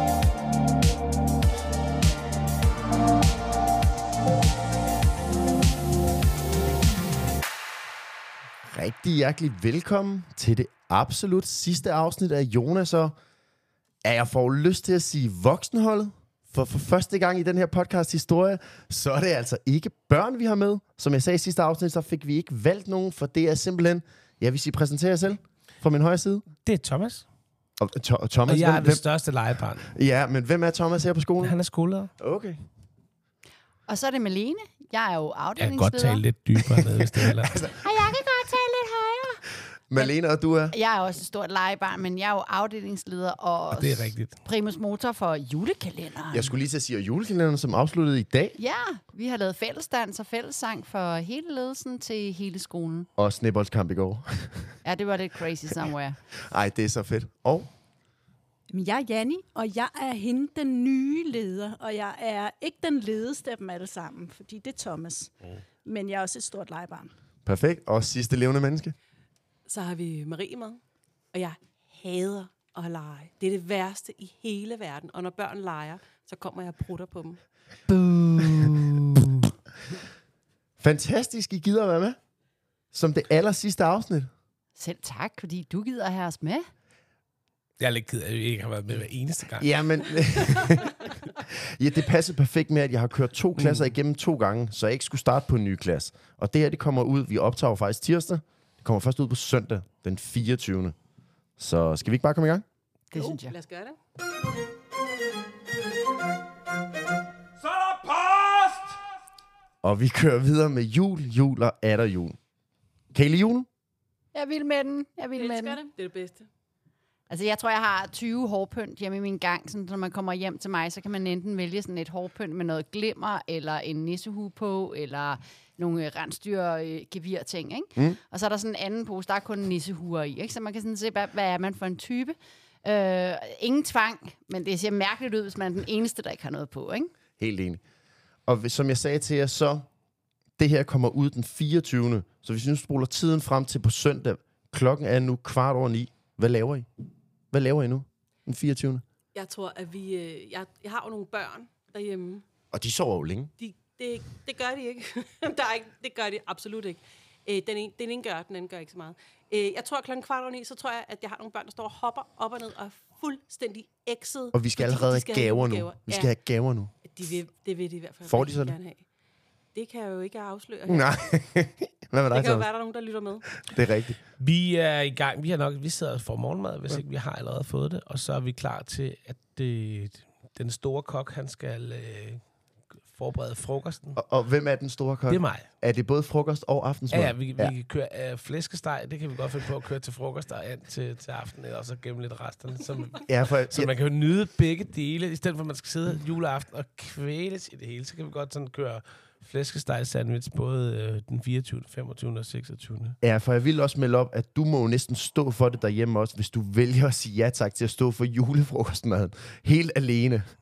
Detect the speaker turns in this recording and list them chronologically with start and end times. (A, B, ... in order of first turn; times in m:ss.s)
0:08.6-0:13.1 A
0:14.0-0:26.5 A
0:26.6-0:27.2 B
0:27.8-0:29.0 A
0:28.5-0:29.9 B
0:29.9-0:31.5 A
0:31.4-0:32.1 B
0:32.2-0:32.6 A
0:33.9-0:36.2 C
0:35.6-0:37.6 B
0:36.9-0:37.7 A
0:37.7-0:39.4 C
0:39.9-0:40.7 A
0:40.7-0:46.5 C
0:43.7-0:44.4 B
0:46.3-0:48.6 A
0:48.6-0:53.1 C
0:53.2-0:54.8 A
0:54.8-0:56.2 C
0:56.4-0:57.7 A
0:58.7-1:07.1 D
1:07.4-1:08.9 A
1:09.6-1:10.8 E
1:11.3-1:17.4 E
1:17.9-1:19.4 C
1:20.8-1:22.2 A
1:22.9-1:24.3 A
1:24.8-1:26.7 C
1:27.8-1:29.7 B
1:29.6-1:40.9 A
1:41.6-1:42.6 A
1:43.1-1:43.5 C
1:43.1-1:44.0 E
1:49.8-1:52.4 A
1:53.1-1:53.7 A
1:54.3-1:55.8 C
1:55.4-1:55.9 D
1:55.9-1:56.5 E
1:57.3-2:17.1 C
2:17.4-2:17.8 A
2:18.4-2:19.8 A
2:20.6-2:26.9 A
2:27.5-2:29.0 A
2:29.3-2:32.4 E
2:32.7-2:33.5 A
2:33.6-2:46.3 E
2:44.5-2:46.9 A
2:47.0-2:49.0 E
2:48.2-2:48.8 A
2:49.7-2:51.2 E
2:50.9-2:52.7 A
2:52.3-2:53.6 E
2:53.7-2:54.2 A
2:54.4-3:02.4 B
3:03.0-3:04.2 B
3:04.2-3:07.7 A
3:05.3-3:05.7 B
3:07.1-3:23.2 B
3:13.2-3:13.9 A
3:23.2-3:30.4 A